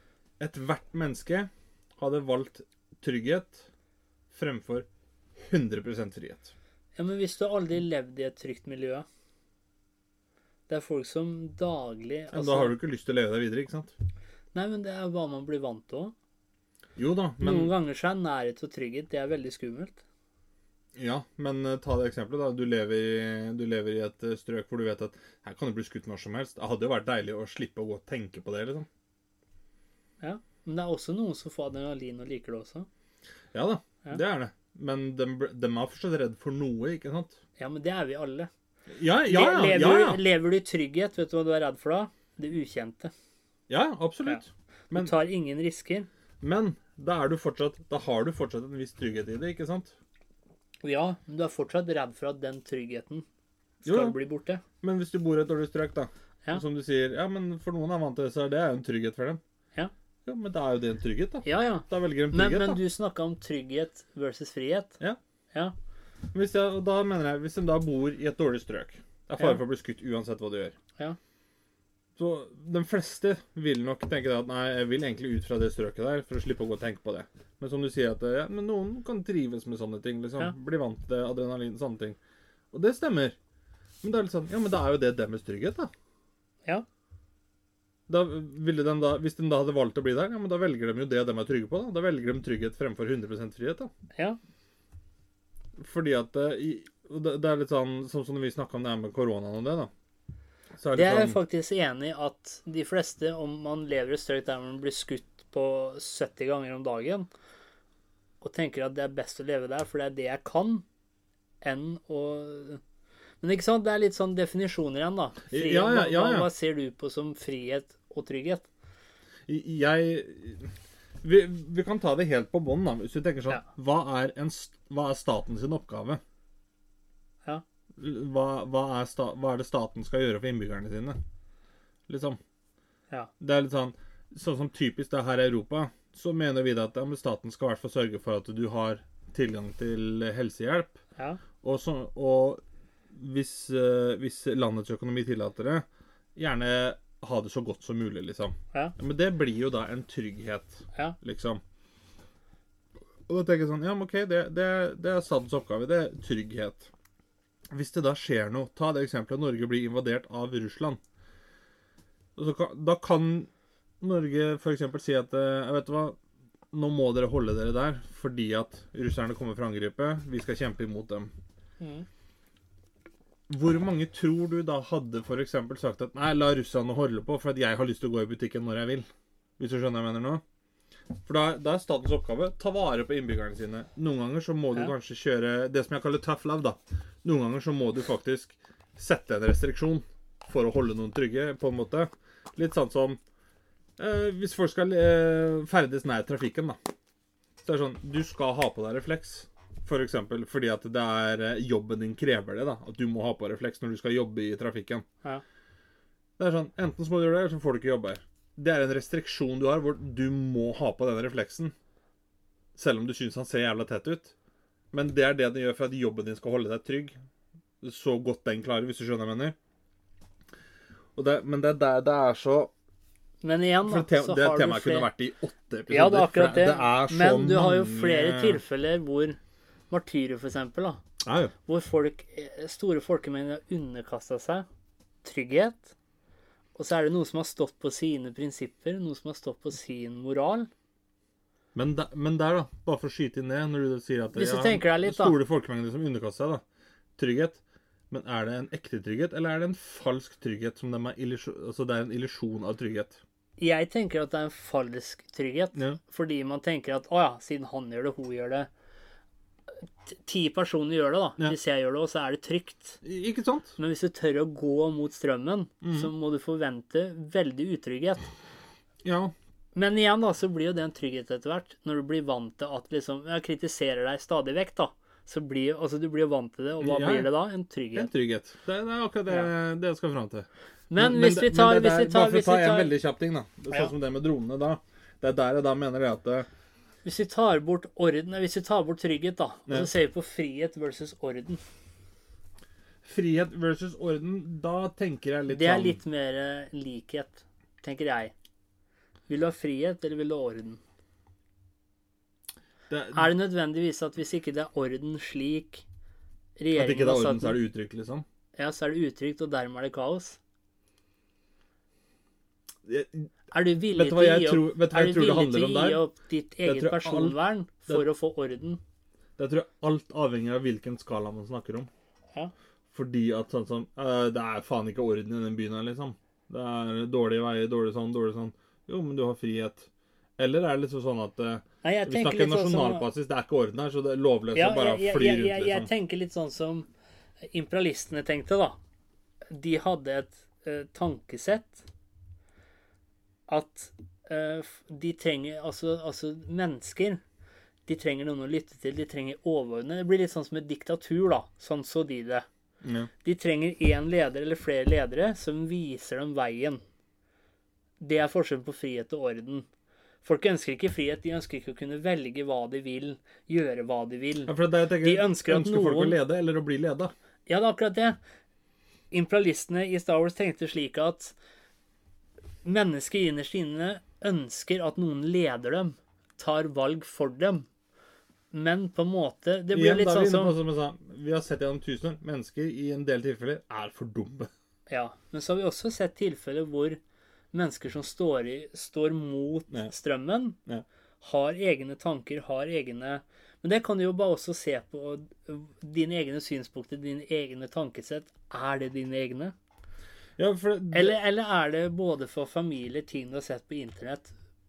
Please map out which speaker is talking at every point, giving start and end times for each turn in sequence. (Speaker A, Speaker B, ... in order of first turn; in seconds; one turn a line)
Speaker A: 0.4-3.7
Speaker A: 4.3-4.9
Speaker A: 5.4-6.5
Speaker B: 7.0-9.1
Speaker B: 10.7-12.8
Speaker A: 12.3-13.9
Speaker B: 14.5-16.1
Speaker A: 16.9-17.7
Speaker B: 17.4-20.0
Speaker A: 20.9-28.9
Speaker B: 30.2-32.9
Speaker A: 33.5-37.4
Speaker B: 37.6-38.5
Speaker A: 38.9-40.2
Speaker B: 39.2-43.1
Speaker A: 43.7-45.1
Speaker B: 44.2-46.1
Speaker A: 46.4-49.9
Speaker B: 50.8-53.2
Speaker B: 53.8-54.6
Speaker A: 53.8-54.1
Speaker A: 54.8-59.4
Speaker A: 60.2-62.8
Speaker B: 61.4-65.0
Speaker A: 66.3-70.8
Speaker A: 72.2-82.2
Speaker A: 82.7-83.3
Speaker A: 84.0-85.9
Speaker A: 88.1-93.9
Speaker A: 95.8-99.9
Speaker A: 100.8-101.4
Speaker B: 100.9-107.3
Speaker B: 108.4-110.8
Speaker B: 111.6-112.8
Speaker B: 113.4-118.7
Speaker A: 115.5-116.5
Speaker A: 119.5-126.2
Speaker A: 128.0-131.2
Speaker A: 132.1-132.4
Speaker A: 133.4-141.0
Speaker A: 141.6-142.6
Speaker A: 143.1-145.8
Speaker A: 146.3-151.6
Speaker A: 153.3-156.9
Speaker A: 157.7-161.0
Speaker A: 162.3-163.5
Speaker A: 164.0-166.2
Speaker A: 166.7-171.3
Speaker B: 171.8-172.1
Speaker A: 173.5-179.1
Speaker A: 179.6-180.4
Speaker A: 181.2-193.2
Speaker A: 194.0-196.8
Speaker A: 197.6-205.1
Speaker A: 206.4-211.7
Speaker A: 212.7-214.3
Speaker A: 214.9-217.2
Speaker A: 217.8-219.6
Speaker A: 221.1-222.7
Speaker B: 223.4-225.1
Speaker A: 223.8-228.6
Speaker B: 225.9-229.4
Speaker B: 229.9-231.0
Speaker A: 231.2-231.5
Speaker B: 231.7-234.7
Speaker B: 235.2-235.9
Speaker B: 236.8-240.7
Speaker A: 241.7-246.6
Speaker B: 244.3-245.4
Speaker A: 247.2-253.2
Speaker B: 253.6-258.7
Speaker B: 260.1-263.0
Speaker A: 263.0-263.8
Speaker B: 263.8-268.2
Speaker A: 265.8-266.1
Speaker A: 269.0-269.3
Speaker B: 269.7-278.1
Speaker A: 276.8-277.3
Speaker A: 277.9-286.5
Speaker B: 280.9-282.9
Speaker B: 287.0-291.6
Speaker A: 293.0-296.0
Speaker B: 295.5-298.3
Speaker B: 299.3-300.8
Speaker A: 302.9-303.3
Speaker B: 303.1-305.9
Speaker B: 306.6-307.6
Speaker A: 306.7-308.2
Speaker B: 308.6-310.4
Speaker A: 312.9-313.3
Speaker B: 313.5-318.8
Speaker A: 313.9-316.0
Speaker A: 316.6-318.0
Speaker A: 319.4-321.9
Speaker A: 322.9-335.9
Speaker B: 331.8-333.0
Speaker B: 334.5-336.9
Speaker B: 337.5-338.8
Speaker B: 339.5-341.8
Speaker B: 343.5-347.2
Speaker B: 347.9-352.4
Speaker A: 352.8-353.1
Speaker B: 353.2-356.8
Speaker B: 358.0-359.7
Speaker B: 360.2-366.2
Speaker A: 364.5-367.1
Speaker B: 367.5-368.2
Speaker B: 369.1-371.3
Speaker B: 372.6-377.7
Speaker B: 378.5-380.5
Speaker A: 379.7-384.5
Speaker B: 384.9-387.0
Speaker B: 387.5-390.6
Speaker B: 391.2-399.5
Speaker A: 400.4-401.2
Speaker B: 400.9-404.3